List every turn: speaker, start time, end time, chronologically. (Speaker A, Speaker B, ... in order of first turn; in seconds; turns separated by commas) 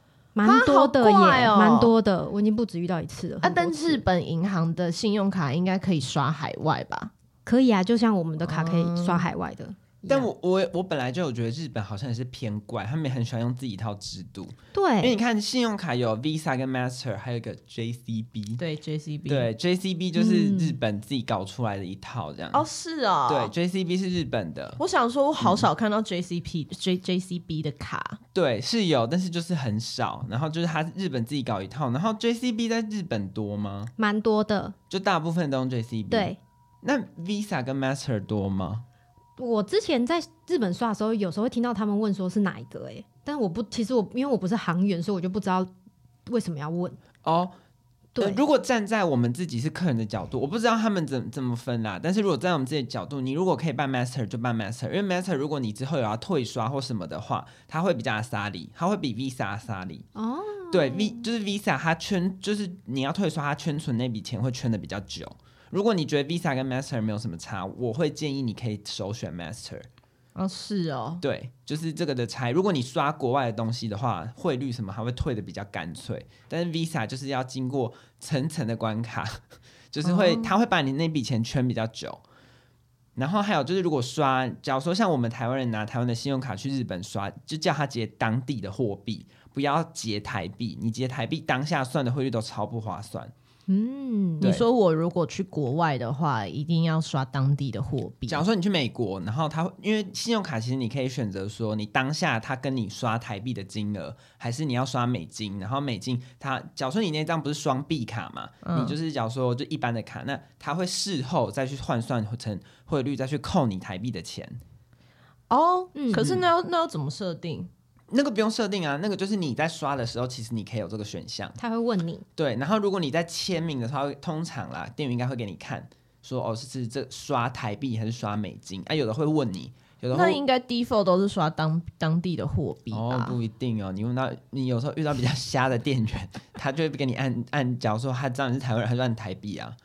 Speaker A: 0.3-4.0, Speaker B: 0.4-1.9, Speaker B: 3.4-7.1, Speaker A: 7.5-10.3, Speaker B: 8.4-9.3, Speaker C: 10.1-18.6, Speaker A: 14.7-15.2, Speaker B: 18.6-19.5, Speaker C: 19.3-22.6, Speaker A: 20.2-20.8, Speaker B: 22.5-23.5, Speaker C: 23.3-24.8, Speaker B: 24.8-28.2, Speaker C: 25.4-25.7, Speaker C: 28.3-33.9, Speaker A: 34.0-34.8, Speaker C: 34.9-38.8, Speaker A: 36.1-36.4, Speaker A: 39.4-45.7, Speaker A: 46.3-47.0, Speaker C: 47.2-47.5, Speaker A: 48.1-48.4, Speaker C: 48.2-60.0, Speaker A: 60.1-61.2, Speaker C: 60.7-69.9, Speaker B: 70.4-71.2, Speaker C: 71.2-79.4, Speaker C: 79.9-82.2, Speaker B: 80.0-80.5, Speaker C: 83.2-93.3, Speaker A: 93.7-94.5, Speaker B: 94.4-98.5, Speaker C: 98.3-114.6, Speaker B: 108.6-109.0, Speaker B: 115.5-117.7, Speaker A: 116.0-116.3, Speaker C: 116.2-116.5, Speaker C: 118.1-121.6, Speaker A: 121.6-122.2, Speaker C: 122.4-130.4, Speaker B: 130.1-133.4, Speaker C: 132.9-139.8